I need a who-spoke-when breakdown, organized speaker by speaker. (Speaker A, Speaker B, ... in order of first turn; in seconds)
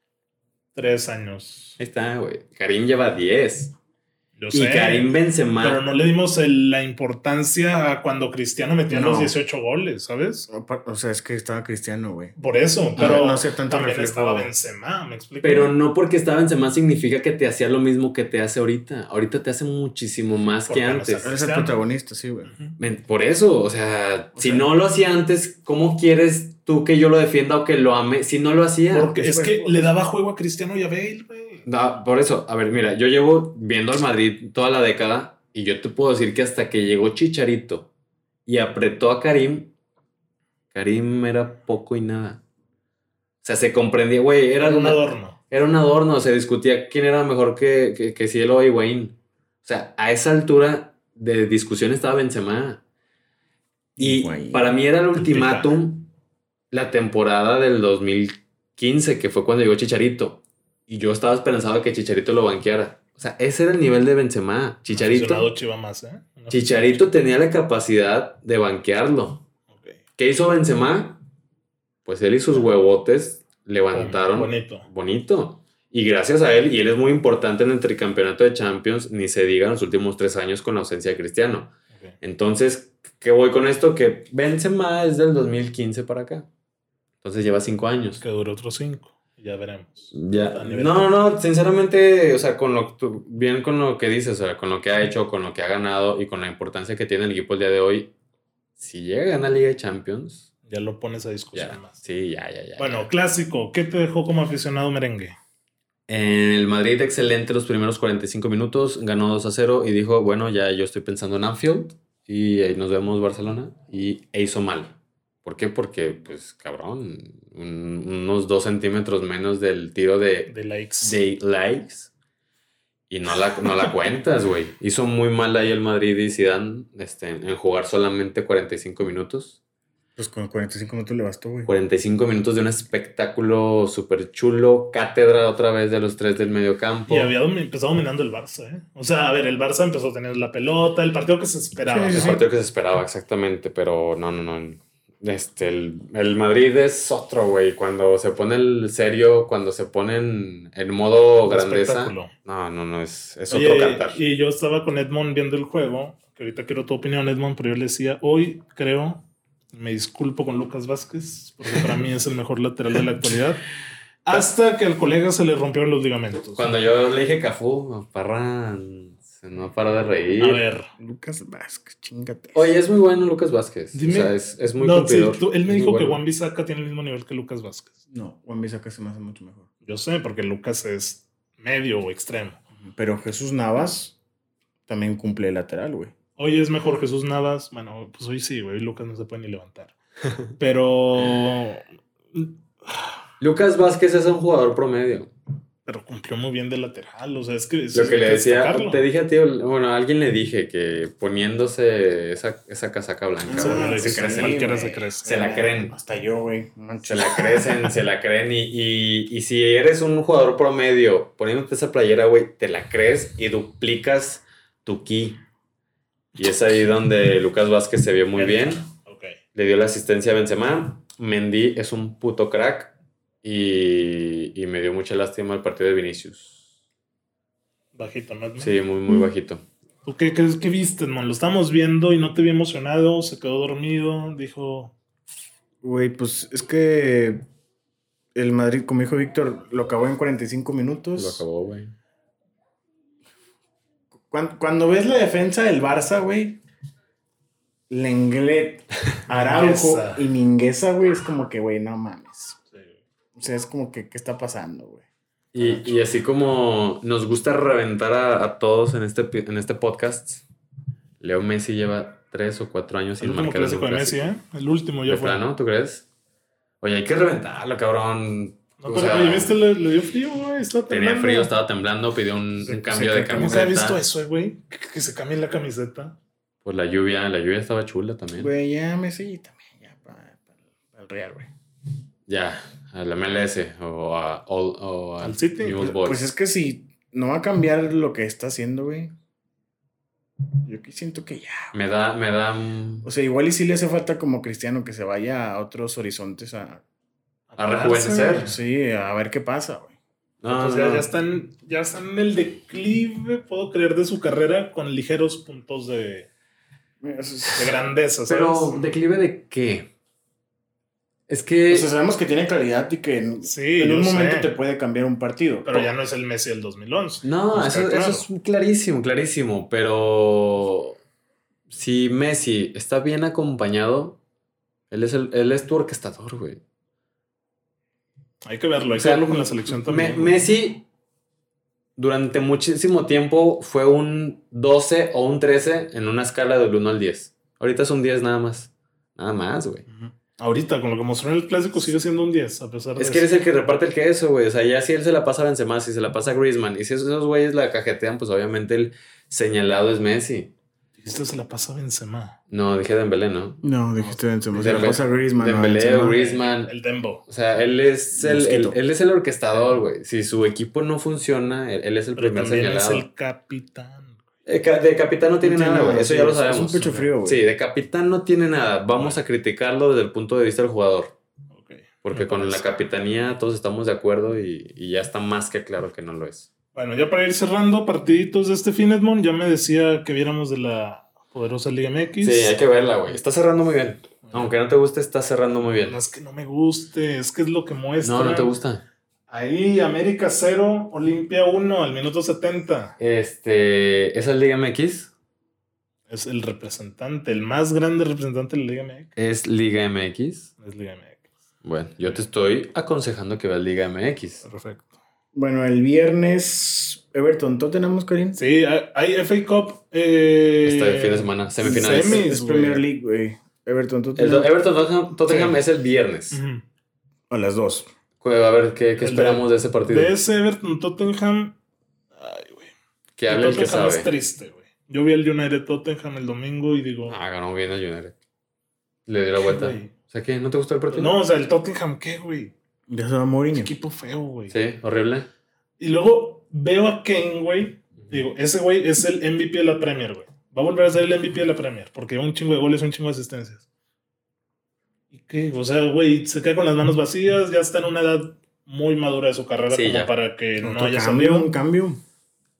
Speaker A: 0.8-1.8, 4.4-10.5, 12.4-15.8, 20.7-21.8, 22.5-22.8, 28.9-31.6, 44.6-45.4, 55.1-55.8, 64.9-67.0, 69.7-70.0, 73.9-74.9, 88.2-91.1, 100.7-102.0, 102.8-105.3, 120.5-121.2, 137.1-142.4, 151.4-152.3, 153.5-163.6, 164.2-166.7, 170.4-170.9, 173.9-177.9, 179.8-182.6, 186.4-189.9, 190.6-193.1, 195.9-199.0, 203.5-205.3, 218.3-219.4, 227.9-228.7, 230.1-234.9, 249.3-250.3, 263.2-265.4, 268.8-271.5, 273.4-276.2, 285.2-286.0, 297.5-298.6, 300.5-306.3, 307.6-308.8, 313.4-314.5, 315.6-318.3, 328.4-330.5, 339.9-343.3, 351.0-352.4, 354.1-355.0, 356.1-357.2, 362.2-364.2, 366.8-367.1, 371.5-372.6, 376.7-382.6, 384.2-384.5, 385.9-388.5, 389.3-393.0, 396.1-399.1, 400.6-401.3, 404.4-404.9, 408.4-412.8, 415.3-415.6, 416.3-416.6, 419.0-421.6, 422.2-422.7, 423.3-427.2, 429.4-429.9, 430.9-432.5, 433.5-434.6, 435.8-443.6, 445.1-451.5
Speaker B: 1.8-3.8, 4.5-5.8, 15.4-21.3, 22.8-29.1, 31.7-37.9, 38.5-39.7, 40.7-42.4, 43.4-52.8, 54.0-56.1, 56.7-65.5, 66.5-69.5, 70.2-71.2, 72.0-86.5, 87.2-88.2, 90.1-98.1, 98.8-100.5, 101.5-103.0, 106.1-122.1, 123.1-129.6, 131.7-137.3, 142.1-154.2, 166.6-170.6, 172.6-176.2, 193.4-195.3, 197.9-204.7, 205.2-205.9, 207.1-215.4, 216.4-218.9, 219.6-226.6, 228.6-229.6, 241.2-241.9, 255.5-260.4, 261.2-264.4, 265.1-266.1, 266.8-269.6, 270.9-274.0, 276.6-278.5, 282.3-286.3, 291.7-293.1, 297.6-298.5, 300.4-301.1, 308.3-309.9, 311.3-311.9, 317.2-321.0, 321.7-324.2, 324.9-326.6, 328.9-330.9, 332.0-339.9, 343.0-350.5, 352.5-353.6, 354.6-356.7, 357.3-363.1, 364.5-371.1, 372.0-376.5, 382.2-386.0, 388.0-388.8, 393.0-395.1, 399.2-400.5, 401.6-404.4, 410.6-412.3, 414.2-416.4, 418.2-420.1, 423.2-424.1, 427.1-428.1, 429.1-431.1, 434.5-435.3, 449.7-450.1
Speaker C: 8.9-9.3, 10.5-12.3, 13.0-14.5, 21.2-22.5, 29.1-29.9, 54.0-54.8, 130.2-131.7, 141.8-142.4, 171.0-172.7, 178.1-179.7, 182.8-184.2, 184.9-186.1, 203.5-207.9, 235.8-237.4, 238.3-241.4, 244.3-246.6, 247.9-252.6, 253.4-255.1, 272.6-273.8, 278.4-281.5, 286.0-289.1, 290.6-291.7, 293.0-296.8, 298.4-300.0, 307.0-307.7, 311.7-315.9, 353.6-356.2, 358.2-358.8, 365.4-367.4, 405.3-408.4, 411.6-414.5, 417.3-417.9, 432.9-433.7, 450.6-452.0